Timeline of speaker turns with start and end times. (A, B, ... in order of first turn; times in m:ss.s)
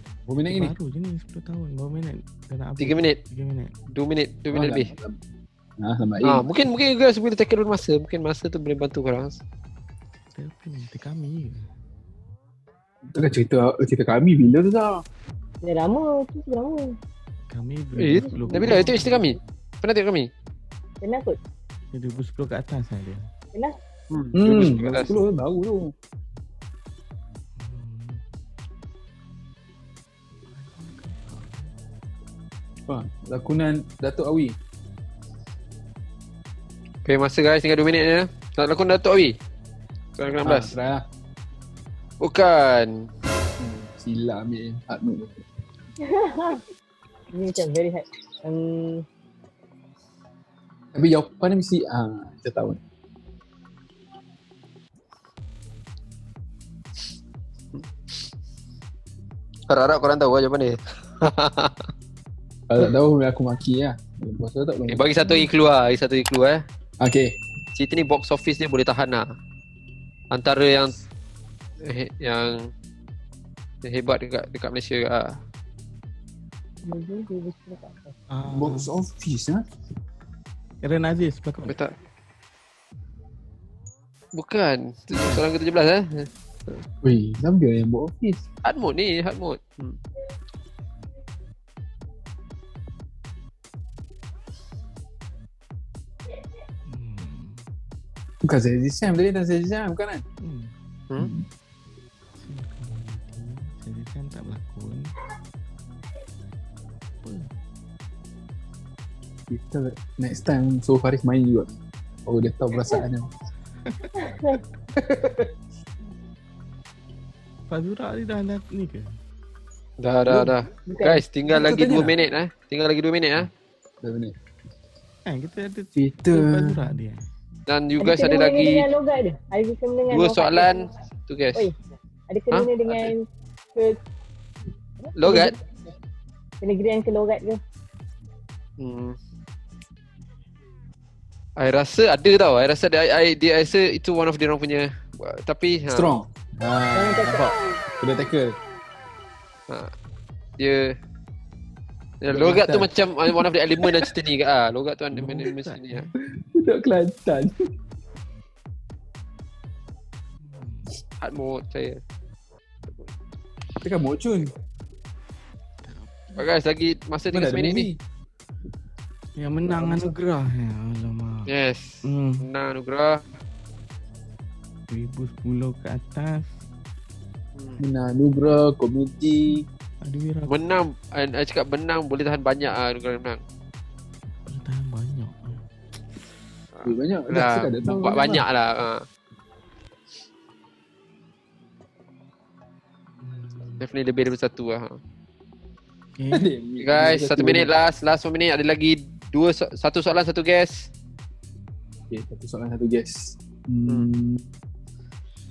0:00.3-0:00.7 A
0:00.4-0:03.7 B
0:02.8-0:03.2 C
0:03.9-0:04.9 C
0:04.5-0:05.2 A
0:05.8-0:06.4 A
0:06.2-0:09.4 C
0:10.3-0:11.7 B
0:13.1-0:15.0 A
0:15.6-0:16.9 D
0:17.5-0:19.4 B
0:18.0-0:20.3 C
0:18.1-0:18.9 D
0:21.0-0:21.4 D
0:21.9-0:23.3 B
0:24.1-0:25.2 C
0:24.3-0:25.9 A
0:27.6-0:28.2 B
0:30.5-0:31.7 B
0:32.9-0:34.6 A
0:37.0-0:39.4 C
0:40.2-0:40.7 C
0:40.4-0:41.0 A
0:42.2-0:43.1 C
0:43.6-0:45.4 A
0:46.0-0:46.6 D
0:47.3-0:49.0 D
0:50.9-0:52.8 A
0:57.7-0:58.2 C
0:59.7-1:01.9 C
1:02.7-1:05.0 A
1:04.9-1:06.6 C
1:07.0-1:07.3 A
1:07.7-1:09.3 C
1:10.3-1:11.0 C
1:11.8-1:12.7 C
1:13.8-1:15.4 C
1:16.8-1:18.1 D
1:18.3-1:18.9 B
1:18.5-1:19.6 A
1:20.8-1:21.8 B
1:21.6-1:21.9 C
1:24.3-1:26.8 C
1:25.1-1:25.4 B
1:27.0-1:28.4 A
1:28.6-1:30.0 C
1:36.9-1:37.6 B
1:38.4-1:40.2 A
1:40.4-1:40.7 B
1:41.2-1:41.4 A
1:42.4-1:45.1 B
1:47.2-1:47.5 B
1:49.5-1:53.3 A
1:54.2-1:54.6 D
1:54.9-1:55.5 A
1:57.7-1:59.1 B
2:00.0-2:03.5 C
2:00.3-2:00.5 A
2:00.8-2:01.2 D
2:01.6-2:02.1 A
2:04.0-2:04.4 A
2:05.2-2:07.3 B
2:06.0-2:06.8 A
2:07.7-2:08.9 C
2:08.0-2:10.8 D
2:10.1-2:11.7 C
2:12.3-2:14.0 D
2:12.5-2:13.1 C
2:15.1-2:15.5 D
2:15.1-2:15.5 C
2:16.6-2:17.6 D
2:18.8-2:19.1 C
2:21.6-2:26.1 C
2:25.9-2:28.6 A
2:26.9-2:27.5 D
2:30.6-2:30.9 C
2:32.2-2:36.0 C
2:32.3-2:34.0 A
2:35.1-2:36.1 B
2:36.4-2:37.5 A
2:40.4-2:40.9 B
2:41.2-2:42.0 C
2:43.8-2:44.5 A
2:45.8-2:46.5 B
2:46.4-2:47.9 C
2:47.3-2:48.0 A
2:49.4-2:51.5 B
2:49.7-2:50.1 A
2:51.5-2:53.2 C
2:52.0-2:52.5 B
2:54.9-2:56.5 B
2:57.6-2:57.8 C
2:57.8-2:59.6 A
3:00.0-3:00.6 B
3:00.5-3:03.4 C
3:04.4-3:05.6 B
3:06.7-3:09.0 C
3:06.8-3:08.4 A
3:13.2-3:13.8 B
3:13.8-3:15.0 C
3:16.2-3:16.5 B
3:16.3-3:17.7 A
3:16.8-3:20.9 C
3:22.1-3:24.4 A